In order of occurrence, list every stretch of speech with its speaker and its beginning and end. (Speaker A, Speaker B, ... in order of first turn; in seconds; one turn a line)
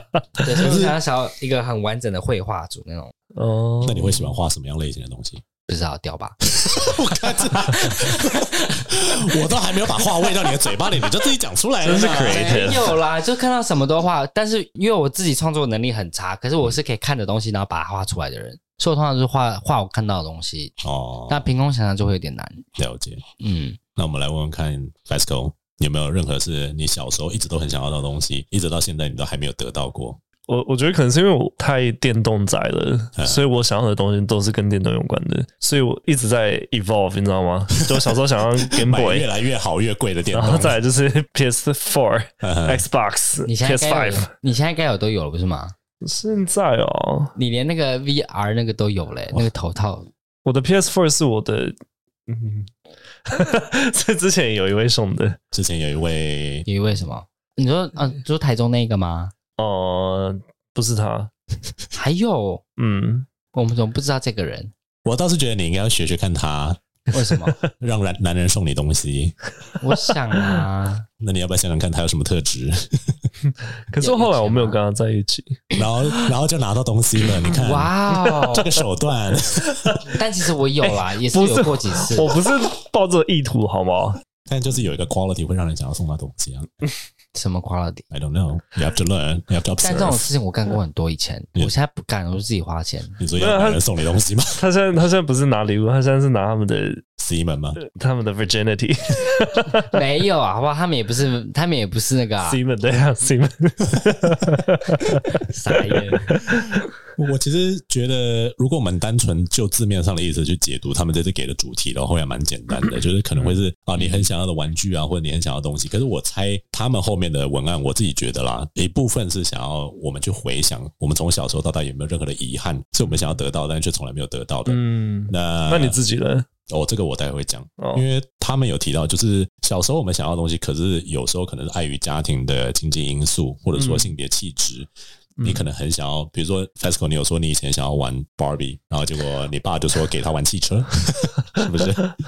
Speaker A: 0.4-3.1
Speaker B: 0.5-0.9
Speaker C: 3.3-4.4
Speaker B: 3.8-5.4
Speaker A: 5.7-8.9
Speaker B: 6.5-12.7
Speaker C: 11.8-13.0
Speaker A: 11.9-20.7
Speaker B: 20.8-21.5
Speaker A: 21.3-22.7
Speaker B: 22.8-23.2
Speaker A: 23.4-23.8
Speaker B: 23.9-30.2
Speaker C: 30.5-39.3
Speaker B: 33.1-33.4
Speaker B: 38.0-40.8
Speaker C: 40.3-44.3
Speaker B: 42.4-42.8
Speaker A: 43.5-45.7
Speaker C: 46.0-47.3
Speaker A: 47.4-50.1
Speaker C: 50.4-52.7
Speaker C: 53.2-55.4
Speaker B: 55.5-56.7
Speaker A: 56.7-59.3
Speaker C: 59.6-61.3
Speaker A: 61.9-62.6
Speaker C: 62.8-63.3
Speaker A: 63.5-64.7
Speaker B: 65.0-66.8
Speaker A: 67.1-67.6
Speaker B: 67.7-69.3
Speaker A: 69.8-71.0
Speaker C: 70.3-70.6
Speaker B: 71.2-73.2
Speaker C: 73.9-75.6
Speaker A: 74.0-74.8
Speaker B: 75.7-80.1
Speaker A: 77.5-78.8
Speaker A: 80.1-82.3
Speaker C: 80.8-84.2
Speaker B: 84.5-86.7
Speaker A: 87.3-88.0
Speaker B: 88.1-90.3
Speaker A: 89.8-93.2
Speaker B: 93.2-94.6
Speaker C: 93.4-93.8
Speaker C: 94.5-97.0
Speaker B: 97.2-97.8
Speaker C: 97.8-100.0
Speaker A: 99.9-102.6
Speaker C: 102.4-106.8
Speaker A: 105.5-106.4
Speaker B: 106.6-126.0
Speaker C: 113.3-114.3
Speaker C: 123.1-123.3
Speaker C: 124.7-126.5
Speaker B: 126.7-134.9
Speaker C: 127.8-128.0
Speaker C: 133.8-134.1
Speaker C: 135.4-135.7
Speaker B: 135.4-142.1